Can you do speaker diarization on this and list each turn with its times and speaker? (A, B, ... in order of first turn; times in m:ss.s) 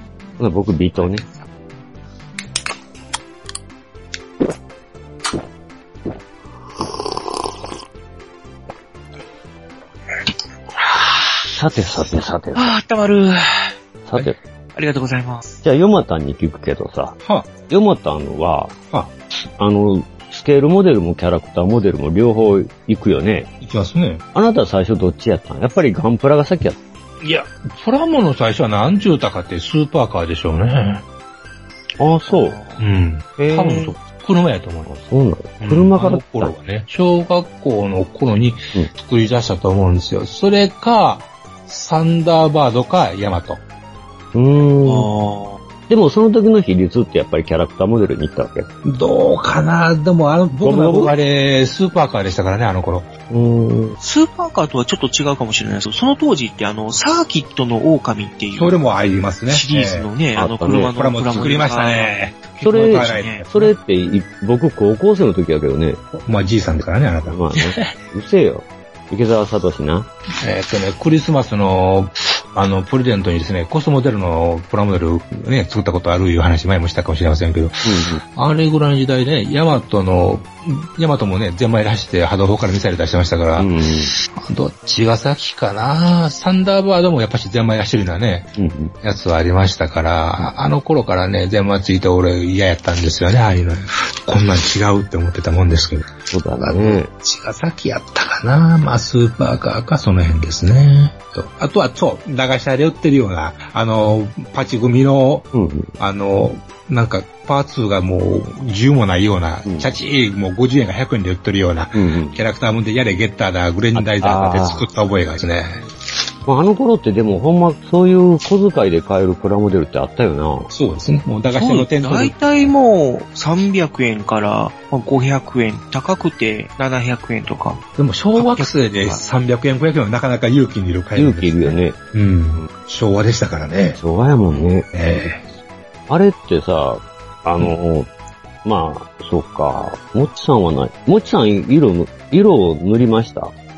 0:00.4-0:01.2 A
0:01.0-0:01.4 B
0:11.4-0:12.7 A
0:12.6-0:13.7 B
0:14.1-0:14.4 A
0:14.8-0:15.5 B
0:15.6-0:17.2 A
0:17.2-0:17.5 C
0:17.7-0:18.8 A
0:19.6-0:23.5 A
0:23.6-0:24.2 C
0:24.3-0:26.8 A
0:27.2-0:31.0 C
0:32.0-0:32.6 A
0:32.3-0:32.9 B
0:32.8-0:34.9 C
0:33.4-0:33.9 A
0:34.9-0:36.5 A
0:35.6-0:43.6 C
0:44.3-0:45.1 A
0:44.8-0:45.6 B
0:45.9-0:48.7 A
0:48.8-0:53.1 C
0:50.6-0:51.2 A
0:53.3-0:54.0 A
0:54.0-0:58.8 B
0:58.5-1:00.1 C
0:59.5-1:03.5 B
1:00.4-1:01.5 A
1:00.7-1:03.7 C
1:02.6-1:06.0 A
1:06.1-1:07.4 C
1:07.3-1:10.1 A
1:07.6-1:07.9 B
1:10.4-1:23.7 C
1:17.8-1:18.2 A
1:23.6-1:24.2 A
1:24.3-1:28.5 C
1:28.6-1:28.9 A
1:29.0-1:45.5 C
1:36.3-1:37.1 A
1:45.5-1:45.9 A
1:46.0-1:55.8 C
1:49.6-1:50.0 A
1:51.9-1:52.4 A
1:54.0-1:54.9 A
1:56.5-2:00.7 A
2:00.7-2:02.7 C
2:01.5-2:07.8 B
2:08.0-2:14.0 C
2:08.4-2:09.2 B
2:11.2-2:12.0 A
2:14.0-2:14.9 A
2:14.9-2:15.4 C
2:16.1-2:18.1 A
2:18.6-2:23.5 A